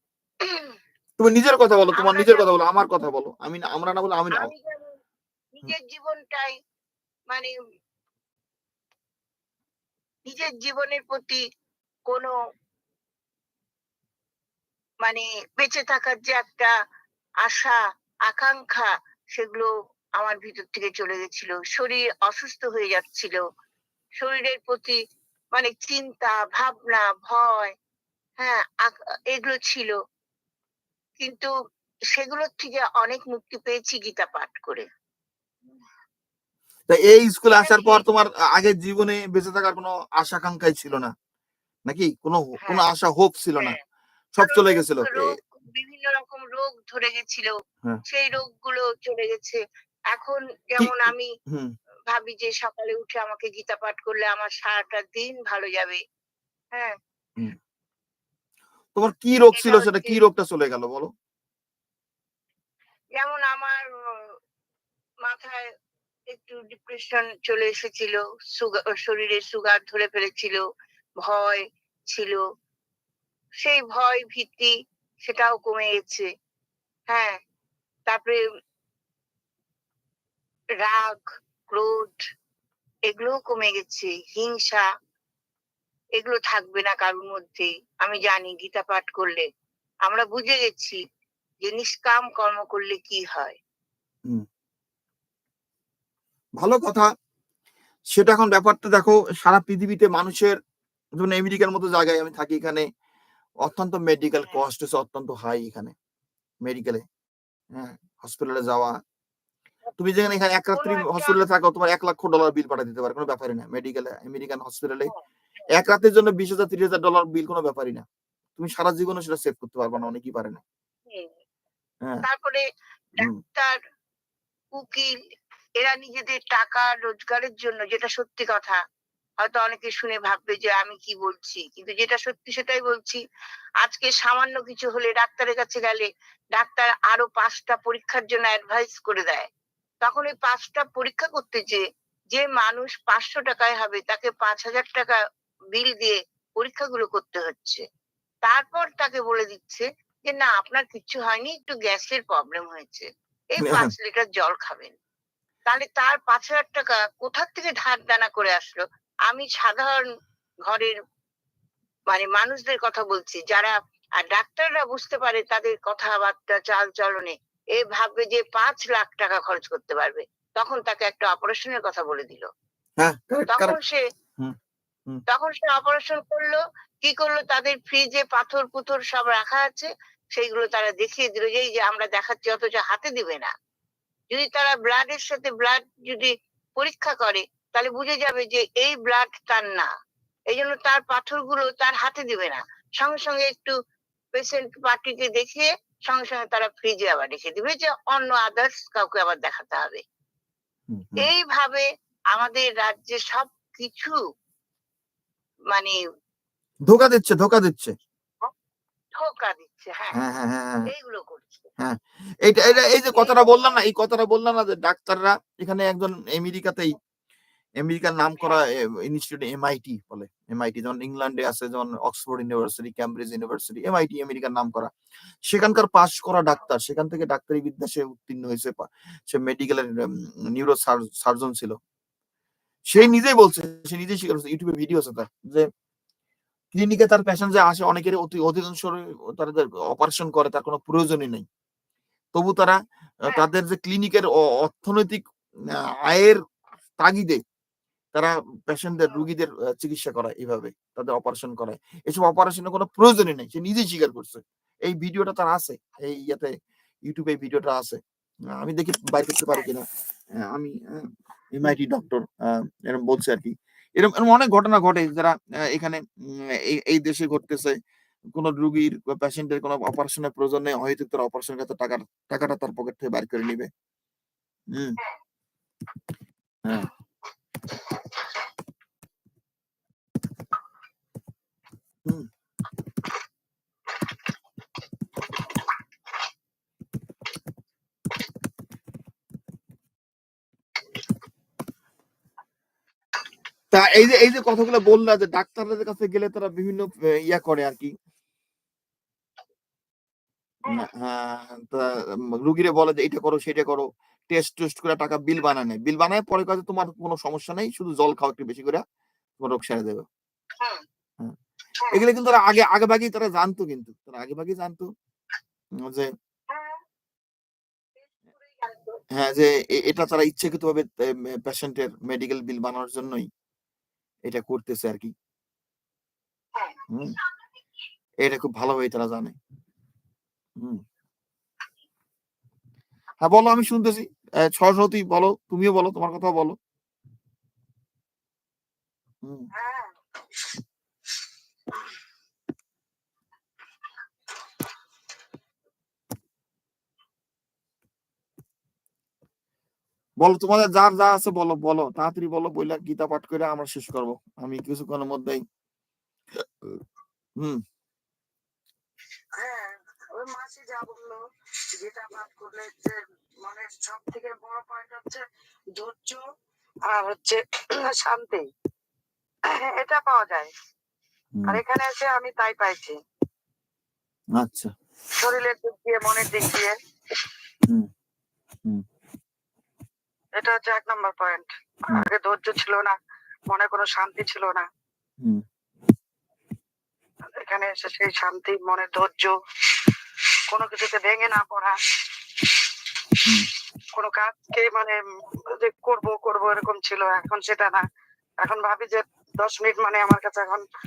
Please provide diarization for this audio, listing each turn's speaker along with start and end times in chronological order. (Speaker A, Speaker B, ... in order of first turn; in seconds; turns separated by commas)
Speaker A: 0.4-0.7, Speaker B: 1.2-4.5, Speaker A: 1.9-2.5, Speaker A: 4.3-5.0, Speaker A: 5.6-6.5, Speaker A: 10.2-11.4, Speaker A: 12.1-12.3, Speaker A: 15.0-16.7, Speaker A: 17.4-23.4, Speaker A: 24.2-25.0, Speaker A: 25.5-27.7, Speaker A: 28.4-29.9, Speaker A: 31.2-31.5, Speaker A: 32.1-34.9, Speaker B: 36.9-41.1, Speaker A: 37.5-38.0, Speaker B: 41.9-43.8, Speaker B: 44.4-45.4, Speaker A: 44.4-47.5, Speaker A: 48.1-49.6, Speaker A: 50.1-51.3, Speaker B: 50.8-51.7, Speaker A: 52.1-56.0, Speaker B: 59.0-61.1, Speaker A: 59.5-60.2, Speaker A: 63.1-64.3, Speaker A: 65.2-65.7, Speaker A: 66.3-70.6, Speaker A: 71.2-72.4, Speaker A: 73.6-74.7, Speaker A: 75.2-76.3, Speaker A: 77.1-77.4, Speaker A: 78.1-78.4, Speaker A: 80.8-82.2, Speaker A: 83.1-84.8, Speaker A: 86.2-89.5, Speaker A: 90.0-91.0, Speaker A: 91.6-93.6, Speaker B: 96.6-97.1, Speaker B: 98.1-100.6, Speaker B: 101.2-102.8, Speaker B: 103.6-105.9, Speaker B: 106.6-107.0, Speaker B: 107.7-108.9, Speaker B: 110.0-115.1, Speaker A: 110.8-111.3, Speaker B: 115.7-118.0, Speaker B: 118.6-120.6, Speaker A: 122.2-122.6, Speaker A: 123.2-123.8, Speaker A: 124.7-125.1, Speaker A: 125.8-128.8, Speaker A: 129.4-133.2, Speaker A: 133.8-139.5, Speaker A: 140.0-145.2, Speaker A: 145.7-147.8, Speaker A: 148.4-154.9, Speaker B: 153.6-153.9, Speaker A: 155.7-160.1, Speaker A: 160.7-160.9, Speaker A: 162.1-172.5, Speaker B: 173.0-173.8, Speaker A: 173.5-174.0, Speaker A: 175.3-183.5, Speaker A: 184.3-189.9, Speaker A: 190.5-193.7, Speaker A: 194.3-200.0, Speaker B: 200.9-201.3, Speaker A: 201.2-204.2, Speaker A: 205.7-206.0, Speaker B: 206.9-207.9, Speaker A: 209.2-210.2, Speaker B: 210.1-210.9, Speaker A: 210.9-211.7, Speaker B: 211.8-216.9, Speaker B: 217.8-224.9, Speaker B: 225.5-231.8, Speaker B: 232.9-235.7, Speaker B: 236.7-241.4, Speaker B: 242.3-245.2, Speaker B: 246.1-246.4, Speaker B: 247.0-247.4, Speaker B: 248.1-256.5, Speaker B: 257.1-258.0, Speaker B: 258.5-259.9, Speaker B: 260.4-266.0, Speaker B: 266.6-267.8, Speaker B: 268.3-273.7, Speaker B: 274.7-275.0, Speaker B: 276.6-276.9, Speaker B: 293.7-297.9, Speaker B: 300.6-301.9, Speaker B: 302.4-308.8, Speaker B: 309.4-310.1, Speaker B: 311.9-314.9, Speaker B: 315.8-316.1, Speaker B: 319.1-323.3, Speaker B: 324.2-325.1, Speaker B: 326.9-327.2, Speaker B: 328.2-329.4, Speaker B: 333.2-336.6, Speaker C: 339.5-339.9, Speaker B: 350.2-355.4, Speaker C: 359.4-361.2, Speaker C: 361.8-365.2, Speaker C: 365.8-366.2, Speaker C: 366.9-368.5, Speaker C: 369.5-370.5, Speaker C: 371.5-373.0, Speaker B: 374.4-374.7, Speaker C: 375.2-376.7, Speaker C: 380.4-383.0, Speaker C: 383.5-384.7, Speaker C: 387.4-389.3, Speaker C: 390.5-391.7, Speaker C: 393.9-395.0, Speaker C: 395.5-397.8, Speaker C: 398.4-400.6